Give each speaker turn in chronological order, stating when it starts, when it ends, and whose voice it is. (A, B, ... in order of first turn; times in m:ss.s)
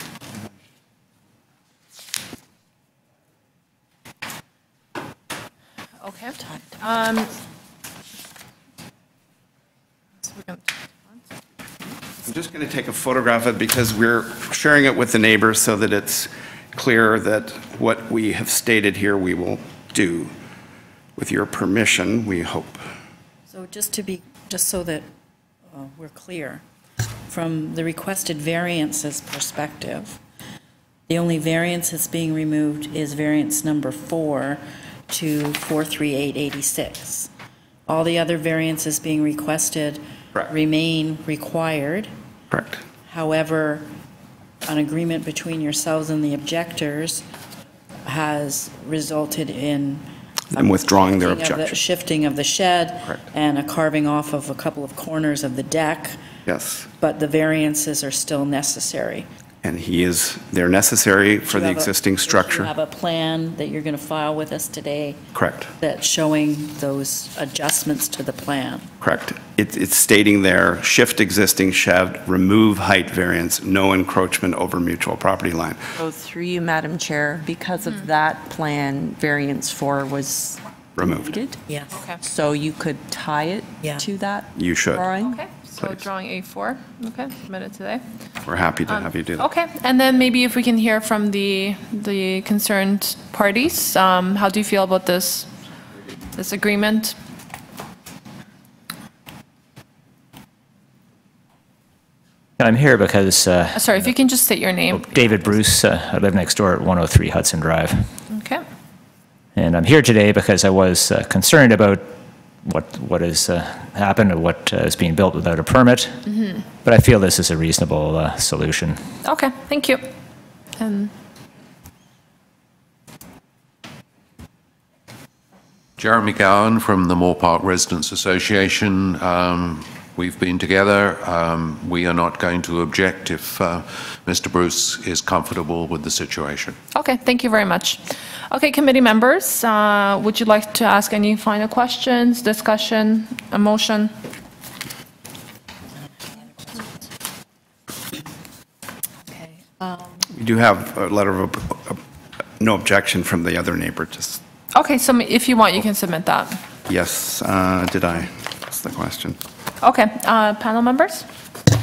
0:06.0-0:07.3 A
0:06.5-0:06.8 B
0:10.2-0:11.2 A
0:12.2-0:20.3 C
0:21.2-0:22.8 C
0:23.5-0:25.0 B
0:25.7-0:26.6 B
0:27.3-0:30.2 B
0:31.1-0:37.3 B
0:37.9-0:42.1 B
0:42.5-0:42.8 C
0:43.0-0:43.9 B
0:44.6-0:47.2 B
0:48.0-0:56.2 B
0:50.5-0:51.8 C
0:56.4-0:56.9 C
0:56.9-0:59.3 B
0:59.6-1:02.7 C
1:01.4-1:05.2 B
1:05.3-1:05.7 C
1:05.8-1:08.9 B
1:09.0-1:15.8 C
1:16.0-1:21.6 D
1:21.0-1:21.4 C
1:21.7-1:21.9 B
1:21.9-1:22.2 A
1:22.2-1:25.3 D
1:24.5-1:25.1 C
1:25.2-1:28.0 A
1:25.8-1:26.1 C
1:28.4-1:29.5 C
1:28.8-1:35.5 A
1:36.3-1:37.2 A
1:42.6-1:44.1 E
1:43.7-1:45.4 A
1:44.9-1:48.1 E
1:48.3-1:48.6 A
1:49.6-1:52.1 E
1:52.6-1:59.0 E
1:59.2-2:00.0 A
2:00.8-2:01.1 A
2:06.0-2:16.8 F
2:16.9-2:24.1 A
2:26.2-2:26.9 B
2:29.3-2:30.2 B
2:30.3-2:32.0 C
2:32.6-2:34.4 C
2:34.7-2:36.6 A
2:36.9-2:39.4 C
2:39.8-2:41.3 A